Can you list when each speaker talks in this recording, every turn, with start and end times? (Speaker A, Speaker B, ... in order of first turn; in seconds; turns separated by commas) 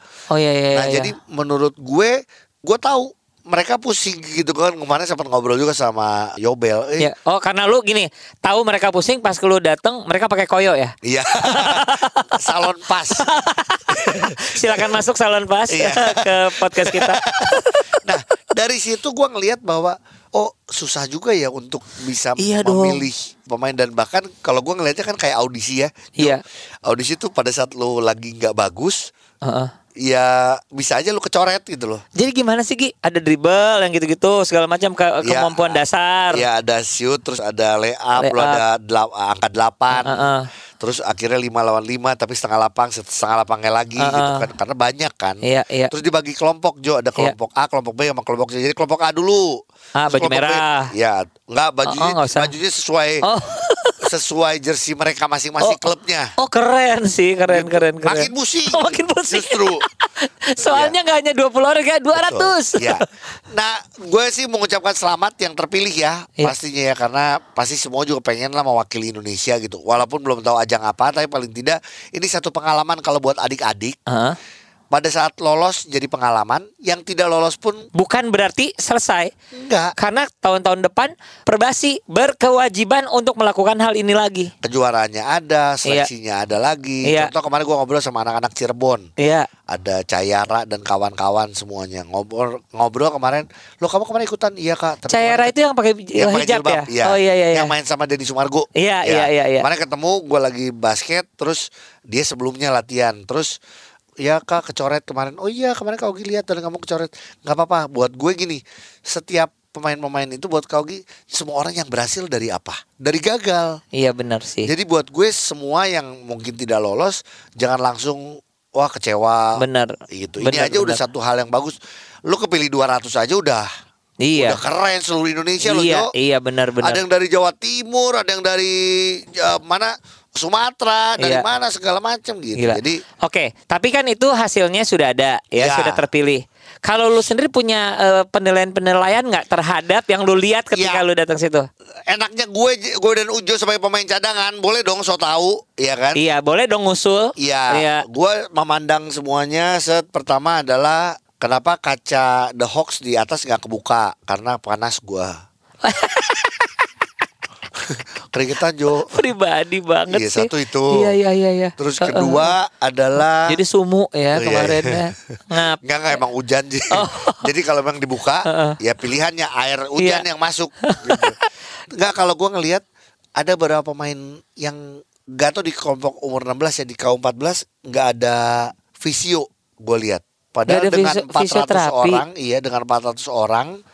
Speaker A: 0.3-1.1, Speaker B: 0.7-7.1, Speaker A: 7.0-12.6, Speaker B: 11.0-13.2, Speaker A: 13.2-18.0, Speaker B: 13.9-14.9, Speaker B: 15.7-29.1, Speaker A: 22.4-23.1, Speaker A: 29.4-29.7, Speaker B: 30.0-32.0, Speaker A: 32.2-36.4, Speaker B: 35.2-35.8, Speaker B: 36.3-40.2, Speaker A: 38.2-38.6, Speaker A: 39.9-40.5, Speaker B: 40.8-45.4, Speaker A: 44.0-44.5, Speaker A: 45.4-45.9, Speaker B: 45.9-49.5, Speaker A: 50.0-50.9, Speaker B: 50.1-53.2, Speaker A: 51.9-52.5, Speaker A: 53.2-54.0, Speaker B: 54.0-56.3, Speaker A: 55.6-63.1, Speaker B: 57.5-59.8, Speaker B: 60.6-61.0, Speaker B: 62.1-74.0, Speaker A: 74.1-74.4, Speaker B: 74.9-77.8, Speaker A: 78.0-79.3, Speaker B: 79.5-79.9, Speaker A: 80.0-84.5, Speaker B: 84.6-89.1, Speaker A: 87.0-87.3, Speaker A: 89.2-89.5, Speaker B: 89.7-95.5, Speaker A: 95.1-97.7, Speaker B: 96.2-103.5, Speaker A: 98.8-99.7, Speaker B: 104.2-113.8, Speaker A: 113.9-114.7, Speaker B: 114.7-119.6, Speaker A: 119.6-121.0, Speaker B: 120.1-121.8, Speaker B: 122.3-123.7, Speaker A: 124.2-124.6, Speaker B: 124.4-126.1, Speaker A: 125.6-127.0, Speaker B: 126.8-133.0, Speaker A: 131.2-131.5, Speaker A: 132.6-141.7, Speaker B: 135.6-136.0, Speaker B: 140.8-141.0, Speaker B: 142.1-146.2, Speaker A: 146.2-148.1, Speaker B: 147.4-155.4, Speaker A: 155.8-156.9, Speaker B: 158.3-159.1, Speaker A: 159.1-162.5, Speaker B: 160.1-161.1, Speaker B: 161.8-163.6, Speaker A: 163.4-166.2, Speaker B: 164.3-165.0, Speaker B: 165.8-171.4, Speaker A: 166.9-167.5, Speaker A: 168.4-168.8, Speaker A: 170.0-170.2, Speaker A: 170.8-171.5, Speaker B: 171.9-172.8, Speaker B: 173.4-183.8, Speaker A: 180.7-182.2